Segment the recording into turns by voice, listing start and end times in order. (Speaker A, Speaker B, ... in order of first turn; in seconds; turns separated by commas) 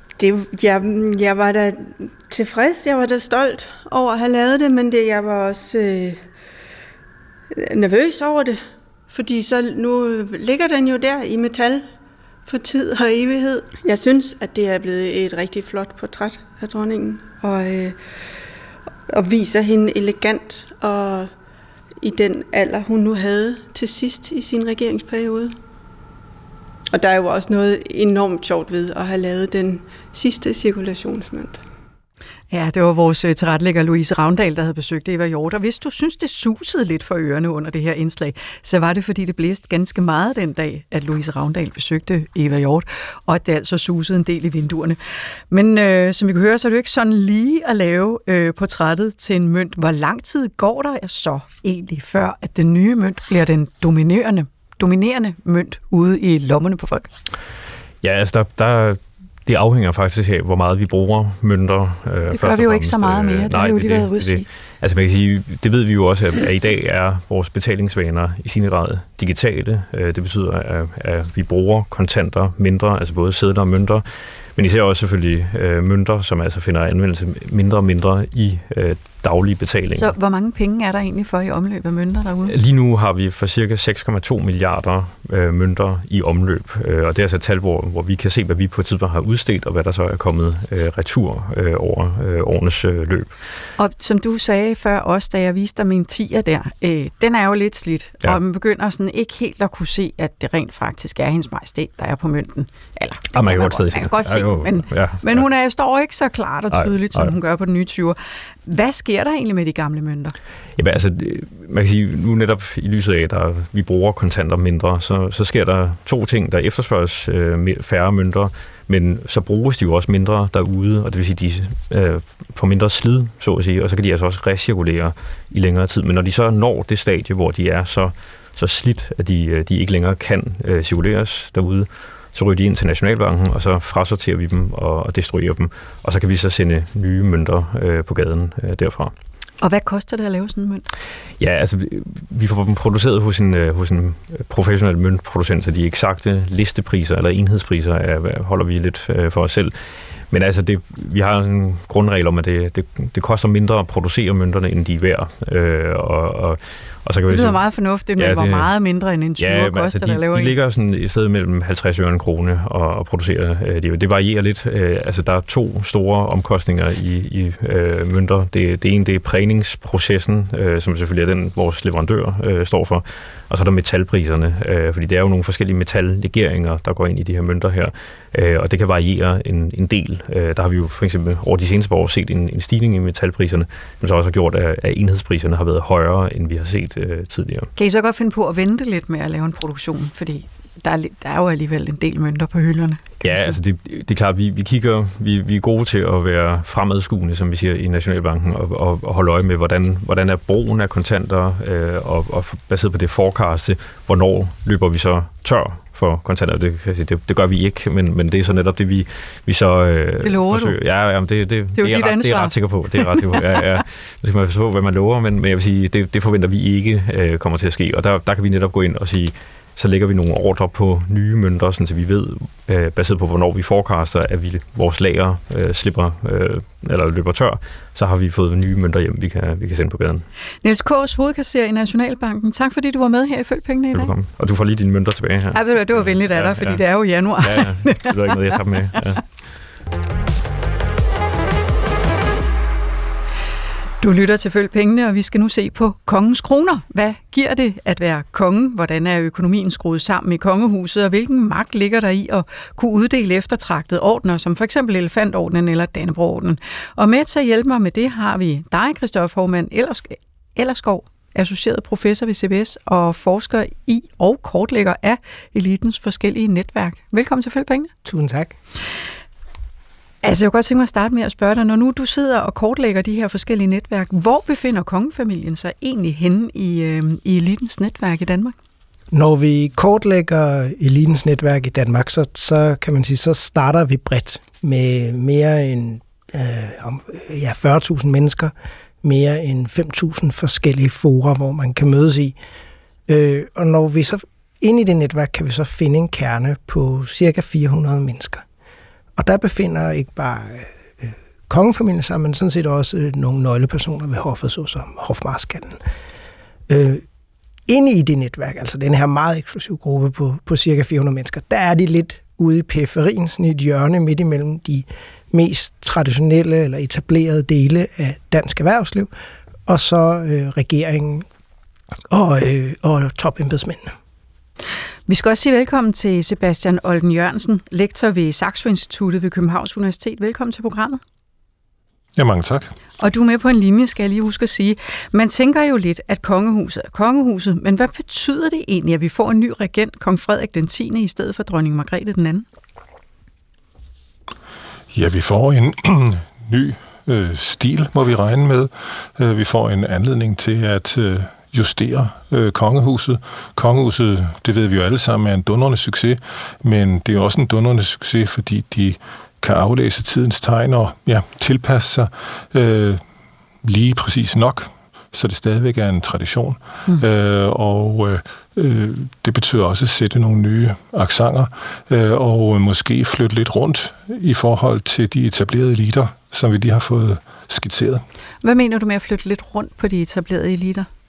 Speaker A: 0.2-6.2, Speaker A: 7.5-11.8, Speaker A: 12.4-18.0, Speaker A: 19.1-21.3, Speaker A: 22.0-25.5, Speaker A: 26.9-31.6, Speaker B: 32.5-45.0, Speaker B: 45.5-57.1, Speaker C: 58.0-80.1, Speaker B: 62.3-64.5, Speaker B: 80.0-82.5, Speaker C: 82.5-93.3, Speaker B: 93.8-110.3, Speaker C: 103.3-105.5, Speaker C: 106.7-107.3, Speaker C: 110.8-139.1, Speaker B: 139.6-140.9, Speaker C: 141.4-149.8, Speaker C: 150.3-157.6, Speaker B: 157.3-160.5, Speaker C: 158.2-158.7, Speaker C: 159.4-187.7, Speaker B: 187.8-193.6, Speaker C: 193.2-230.3, Speaker B: 210.2-210.8, Speaker B: 211.8-213.6, Speaker B: 230.6-234.1, Speaker C: 233.9-236.8, Speaker B: 235.5-238.6, Speaker C: 237.4-239.2, Speaker B: 244.0-267.9, Speaker D: 268.0-268.6, Speaker B: 270.2-278.5, Speaker D: 279.1-288.5, Speaker D: 289.0-292.4, Speaker D: 293.1-298.4, Speaker D: 299.2-305.8, Speaker D: 306.7-307.0, Speaker D: 307.7-319.1, Speaker D: 319.7-321.2, Speaker D: 322.1-323.9, Speaker B: 325.1-331.0, Speaker E: 332.1-332.7, Speaker B: 333.0-342.4, Speaker E: 344.9-363.0, Speaker E: 363.6-378.0, Speaker B: 378.4-380.9